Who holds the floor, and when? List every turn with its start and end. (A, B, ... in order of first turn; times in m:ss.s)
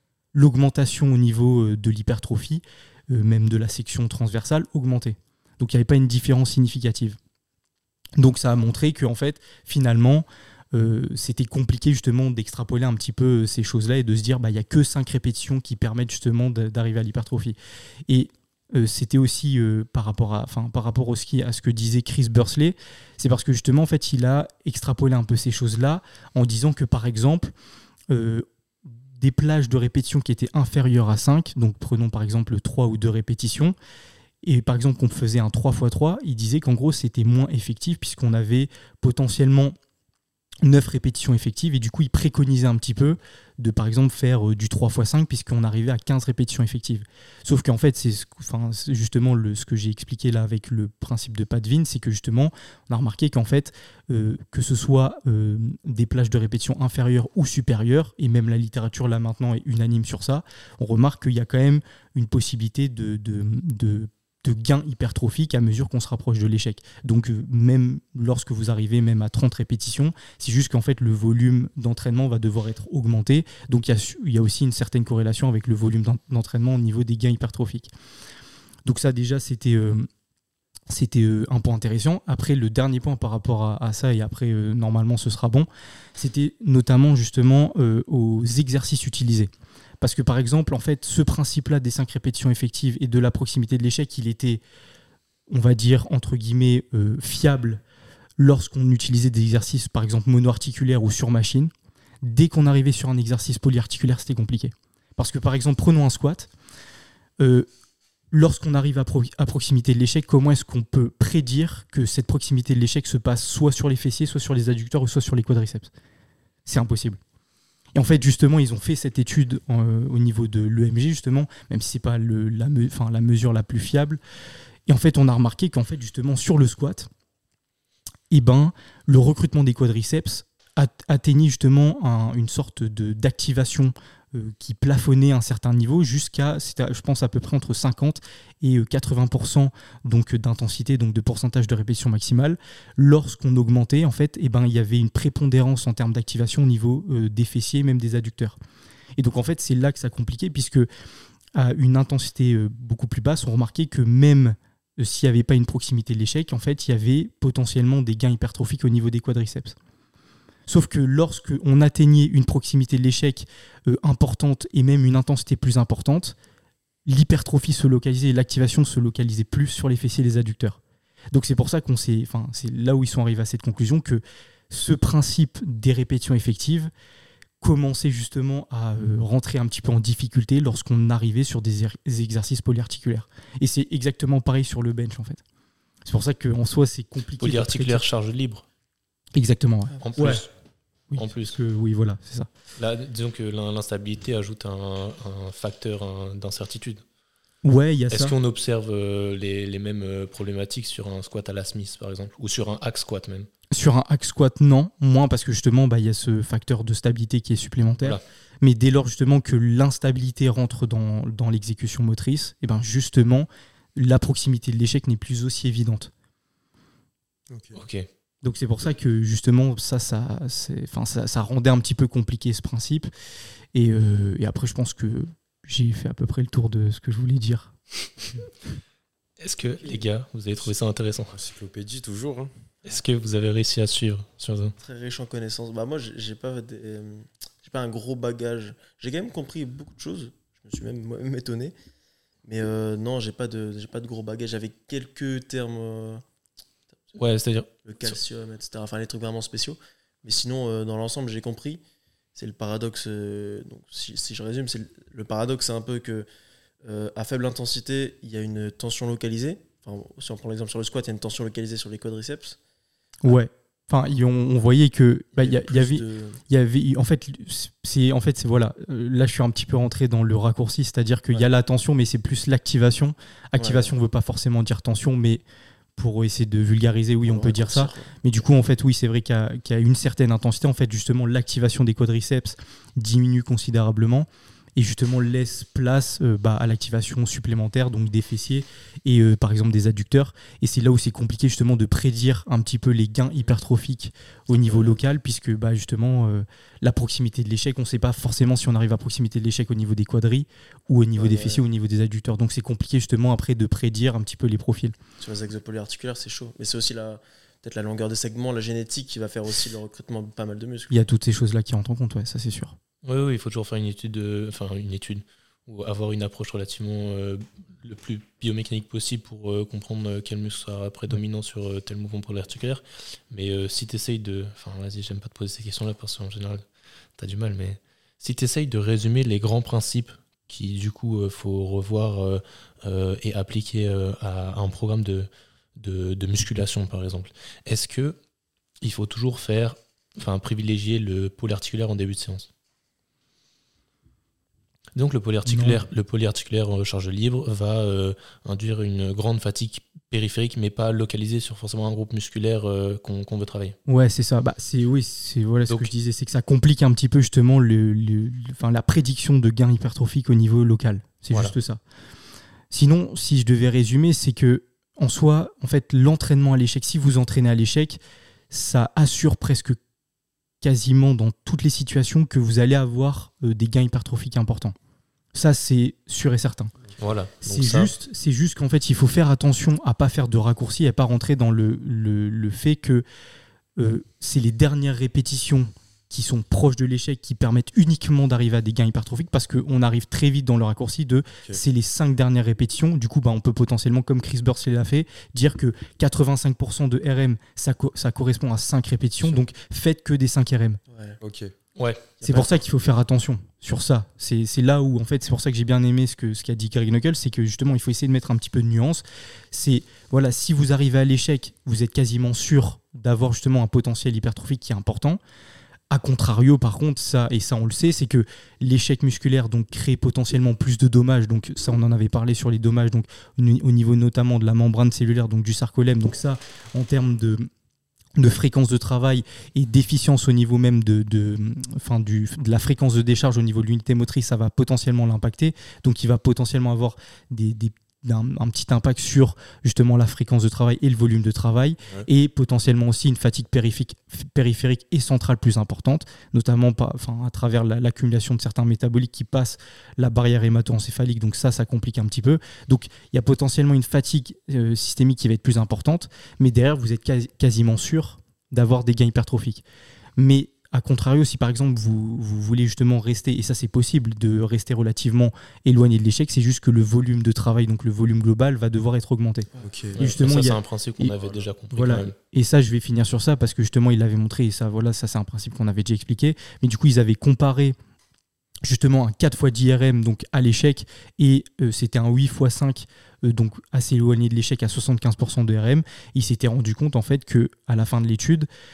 0:00.3-0:07.2 A
0:08.2-0:17.6 A
0:18.1-0:27.5 A
0:28.1-0:33.7 A
0:34.4-0:39.8 A
0:40.6-1:17.9 A
1:18.8-1:20.1 A
1:20.9-1:29.5 A
1:30.0-1:34.6 A
1:35.5-1:37.8 A
1:38.4-1:41.7 A
1:42.2-1:46.5 A
1:47.4-1:47.7 A
1:48.3-1:55.9 A
1:56.6-1:57.2 A
1:57.9-2:04.2 A
2:04.9-2:07.1 A
2:08.3-2:28.6 A
2:29.2-2:30.9 A
2:31.5-2:39.8 A
2:40.7-2:46.4 A
2:47.0-2:50.8 A
2:51.3-2:56.9 A
2:57.6-3:05.4 A
3:06.0-3:08.0 A
3:07.4-3:08.6 B
3:09.3-3:10.4 A
3:10.0-3:10.5 B
3:11.1-3:12.5 A
3:11.2-3:11.5 B
3:12.8-3:17.0 B
3:17.6-3:18.3 A
3:18.1-3:23.5 B
3:23.7-3:36.1 A
3:37.5-3:37.8 C
3:37.7-3:38.1 B
3:38.4-3:43.1 A
3:43.7-3:47.7 A
3:49.4-3:51.4 B
3:51.3-3:52.5 C
3:52.8-3:54.8 B
3:54.8-4:01.7 D
4:02.4-4:06.2 D
4:07.1-4:08.1 B
4:07.8-4:11.8 D
4:12.3-4:16.3 D
4:16.8-4:22.6 D
4:23.2-4:35.4 A
4:25.3-4:26.4 D
4:33.6-4:33.9 D
4:36.0-5:04.9 A
4:37.2-4:38.2 D
4:54.6-4:55.0 D
5:01.2-5:01.6 D
5:05.2-5:10.9 D
5:10.9-5:12.8 A
5:13.0-5:26.6 B
5:27.2-5:38.2 B
5:38.8-5:42.5 B
5:44.9-5:53.8 B
5:45.4-5:45.8 A
5:53.8-6:01.8 A
6:02.7-6:08.0 A
6:08.5-6:09.8 A
6:10.6-6:14.7 A
6:15.3-6:16.7 A
6:17.0-6:17.9 B
6:17.4-6:23.0 A
6:23.8-6:40.8 A
6:40.9-6:41.2 D
6:41.2-6:41.5 C
6:41.8-6:42.1 B
6:42.2-6:42.5 D
6:42.2-6:55.2 A
6:55.9-7:07.5 A
7:08.2-7:39.6 A
7:40.2-7:51.1 A
7:49.6-7:50.0 C
7:49.9-7:52.1 B
7:51.2-7:51.5 C
7:51.7-7:57.8 A
7:58.6-8:08.5 A